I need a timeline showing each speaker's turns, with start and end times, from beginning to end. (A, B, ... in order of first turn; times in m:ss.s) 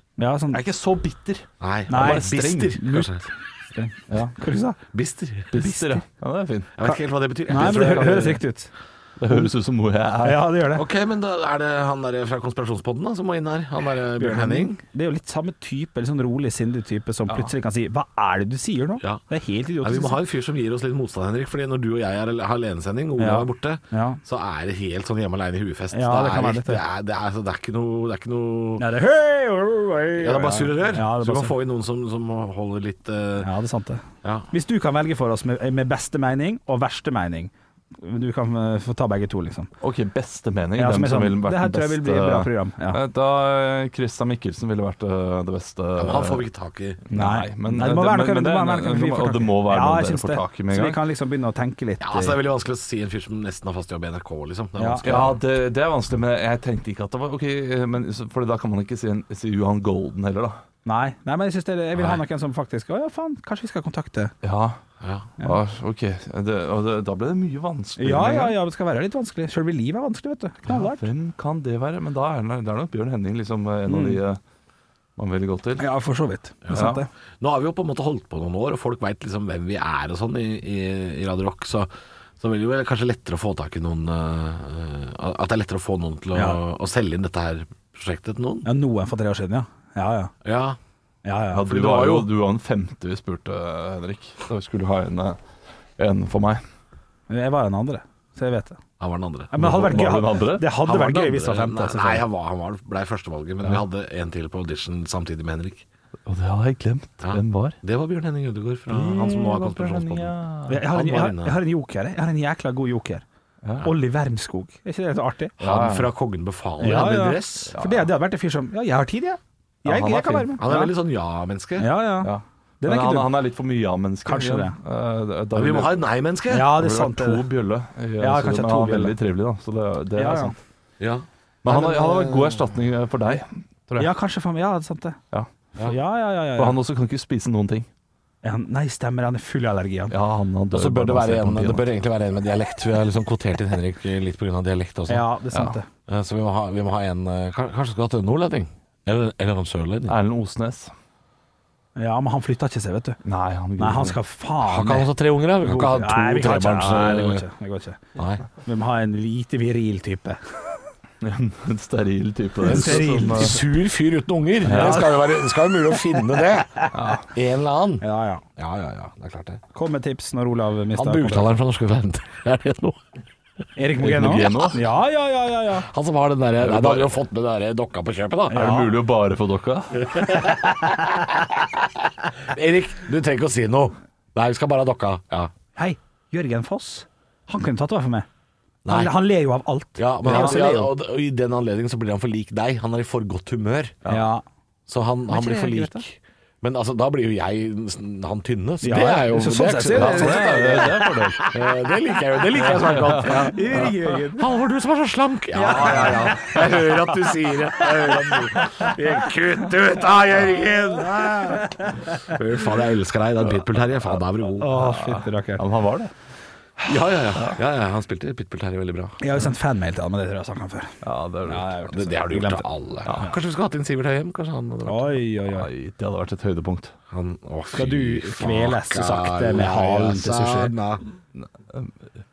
0:00.2-0:00.6 A
0:00.5-0:02.8 B
0:01.6-0:03.2 C
0:01.9-0:04.8 A
0:04.9-0:05.5 C
0:05.5-0:06.7 B
0:05.5-0:06.0 A
0:06.8-0:08.4 C
0:06.8-0:08.7 A
0:07.5-0:08.4 B
0:09.2-0:10.5 B
0:10.2-0:10.8 A
0:10.7-0:14.8 C
0:14.2-0:20.2 A
0:19.8-0:28.8 C
0:23.2-0:24.2 A
0:25.9-0:26.8 A
0:28.8-0:31.5 A
0:30.2-0:33.5 C
0:33.4-0:39.7 A
0:34.2-0:34.5 C
0:39.8-0:46.4 B
0:40.8-0:43.0 A
0:46.0-0:47.0 C
0:47.1-0:51.0 B
0:47.1-0:52.4 A
0:52.0-0:55.4 C
0:54.8-0:55.3 A
0:55.0-1:00.6 B
1:00.8-1:04.3 A
1:04.4-1:04.8 B
1:05.0-1:05.3 C
1:05.4-1:08.6 B
1:08.0-1:11.1 A
1:10.7-1:14.4 B
1:13.9-1:14.2 A
1:15.2-1:15.8 B
1:15.8-1:17.1 A
1:16.6-1:28.7 C
1:16.7-1:17.0 B
1:26.3-1:26.6 A
1:28.6-1:30.3 A
1:30.4-1:30.8 C
1:31.2-1:31.6 A
1:31.5-1:35.4 B
1:31.7-1:32.3 C
1:36.0-1:36.6 B
1:37.3-1:38.8 A
1:39.0-1:40.1 C
1:39.5-1:42.2 A
1:39.5-1:40.7 B
1:40.8-1:45.8 C
1:46.2-1:47.8 B
1:47.2-1:50.3 C
1:48.9-1:50.8 B
1:50.7-1:53.2 A
1:50.8-1:51.6 C
1:53.6-1:53.9 B
1:53.8-1:55.6 A
1:55.6-1:56.1 B
1:55.6-1:57.7 C
1:56.8-2:00.9 A
1:57.7-1:58.1 B
1:59.8-2:00.5 B
2:00.6-2:01.9 C
2:01.8-2:03.3 A
2:02.2-2:06.0 B
2:04.2-2:04.8 A
2:05.5-2:06.7 C
2:06.5-2:07.4 A
2:06.6-2:10.5 B
2:08.2-2:09.1 A
2:10.2-2:10.5 A
2:11.0-2:12.5 C
2:11.6-2:14.1 B
2:14.0-2:15.2 A
2:15.8-2:16.8 A
2:16.6-2:17.9 B
2:18.4-2:20.2 A
2:20.1-2:21.9 B
2:20.7-2:25.3 C
2:25.1-2:25.9 A
2:26.1-2:30.2 C
2:30.1-2:30.9 B
2:32.0-2:33.2 A
2:33.2-2:34.2 B
2:33.8-2:35.1 A
2:34.6-2:37.4 C
2:35.6-2:38.0 A
2:38.2-2:38.4 C
2:38.6-2:40.4 A
2:41.2-2:43.6 B
2:42.6-2:43.6 A
2:42.6-2:48.0 C
2:44.6-2:45.2 B
2:44.7-2:46.1 A
2:46.9-2:47.2 B
2:48.0-2:48.4 A
2:48.6-2:49.6 C
2:49.7-2:51.5 A
2:50.9-2:53.0 C
2:53.8-2:55.9 A
2:54.0-2:54.8 B
2:55.8-2:58.7 C
2:56.6-2:57.1 B
2:58.5-2:58.9 A
2:58.5-3:00.3 B
3:00.1-3:00.9 C
3:02.4-3:05.5 C
3:05.8-3:08.3 A
3:08.8-3:09.1 C
3:08.9-3:10.9 A
3:10.0-3:14.0 C
3:10.2-3:10.6 B
3:14.1-3:14.4 A
3:14.9-3:31.7 C
3:15.3-3:16.0 A
3:18.8-3:21.5 A
3:19.9-3:21.5 B
3:22.6-3:23.9 B
3:22.6-3:24.5 A
3:25.5-3:27.0 A
3:25.9-3:26.3 B
3:27.8-3:28.9 A
3:31.0-3:32.3 A
3:32.2-3:34.7 C
3:34.1-3:36.1 B
3:34.6-3:35.6 A
3:36.8-3:39.2 C
3:39.2-3:40.9 A
3:41.0-3:41.8 B
3:41.4-3:43.3 A
3:41.9-3:45.2 C
3:43.0-3:43.3 B
3:44.8-3:45.7 A
3:45.5-3:46.9 B
3:47.1-3:51.0 C
3:47.7-3:50.7 A
3:51.4-3:52.1 B